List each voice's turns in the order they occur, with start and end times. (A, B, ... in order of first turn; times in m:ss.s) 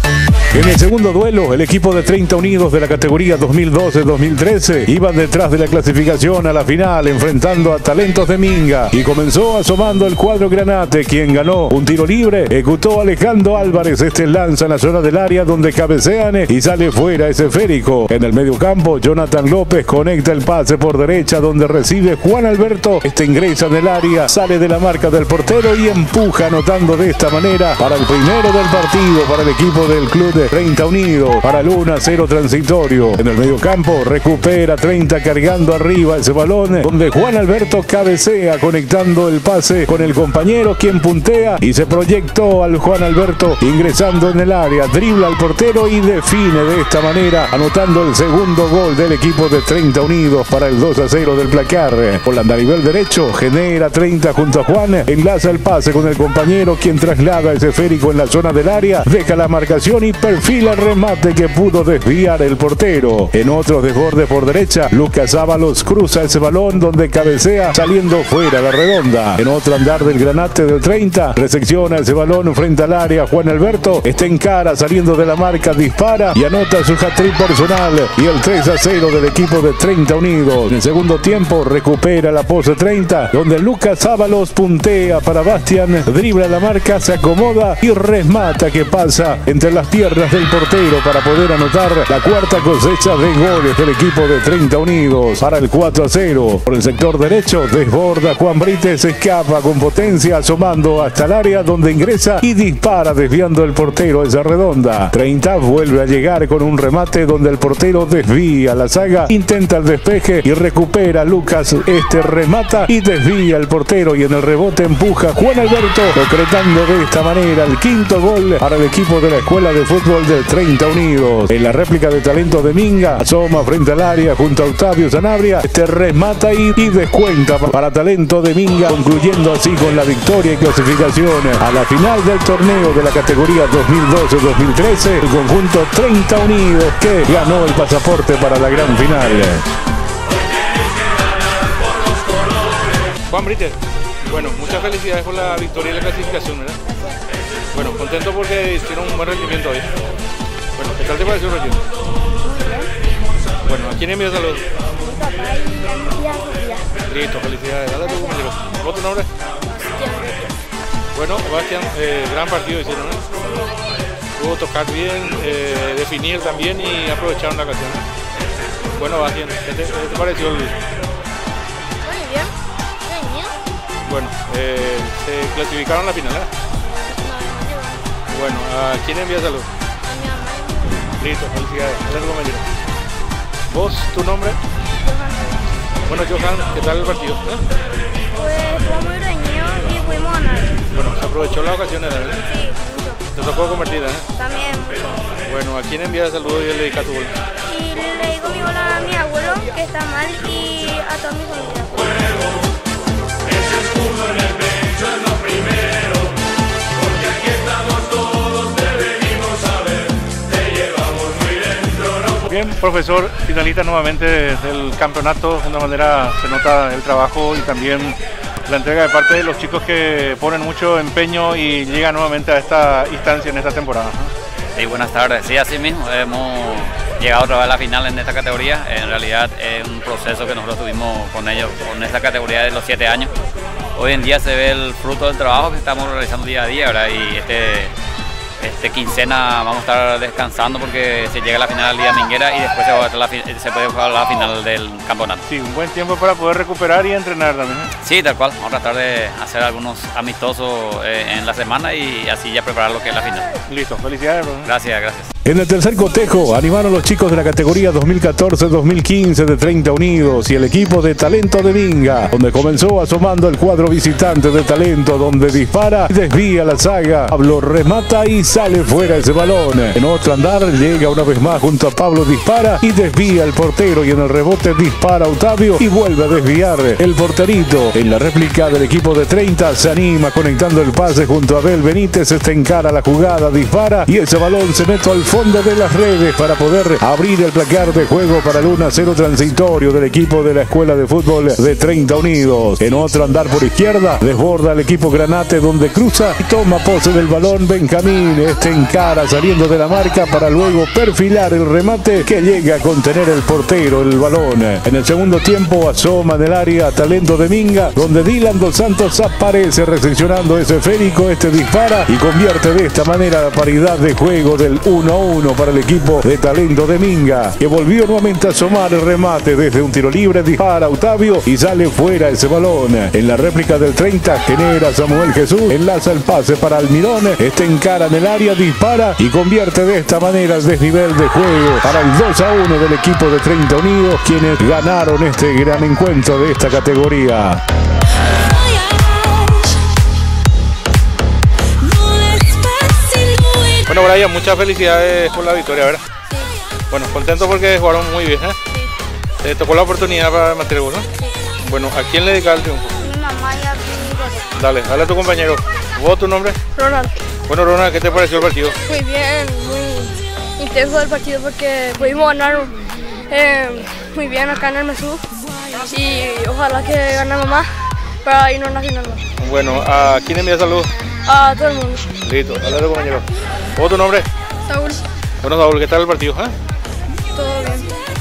0:00.5-2:19.6 A
2:23.3-2:26.8 B
2:26.9-2:27.2 C
2:27.7-2:29.9 B
2:30.8-2:31.8 B
2:32.4-2:32.8 C
2:33.6-2:34.6 B
2:35.0-2:36.9 C
2:37.1-2:39.3 B
2:38.0-2:38.4 C
2:39.7-2:40.5 C
2:41.1-2:43.2 B
2:44.4-2:48.0 B
2:48.9-2:50.7 B
2:52.0-2:52.5 C
2:53.1-2:53.5 C
2:54.0-2:56.5 B
2:56.9-2:58.0 C
2:58.3-2:59.7 B
3:00.0-3:01.0 C
3:01.2-3:02.7 B
3:03.7-3:04.6 B
3:05.0-3:05.7 C
3:06.0-3:07.6 B
3:08.3-3:10.8 C
3:10.9-3:12.4 B
3:12.5-3:13.2 C
3:13.3-3:14.2 B
3:14.4-3:15.2 C
3:15.4-3:17.3 B
3:17.7-3:22.2 C
3:32.4-3:44.3 B
3:44.7-3:53.3 D
3:53.9-3:57.9 D
3:58.6-4:05.4 D
4:05.4-4:07.9 B
4:08.0-4:13.5 D
4:13.7-4:14.7 B
4:14.6-4:15.3 D
4:15.4-5:37.6 A
5:43.8-5:46.0 B
5:46.9-5:48.6 B
5:49.4-5:51.1 B
5:51.6-5:52.9 B
5:53.0-5:54.4 C
5:54.5-5:56.6 B
5:56.7-5:57.2 E
5:57.5-5:58.8 B
5:58.8-6:09.2 E
6:09.4-6:10.9 B
6:11.2-6:12.1 E
6:12.2-6:14.3 B
6:14.7-6:15.0 E
6:15.4-6:16.5 B
6:17.3-6:17.9 E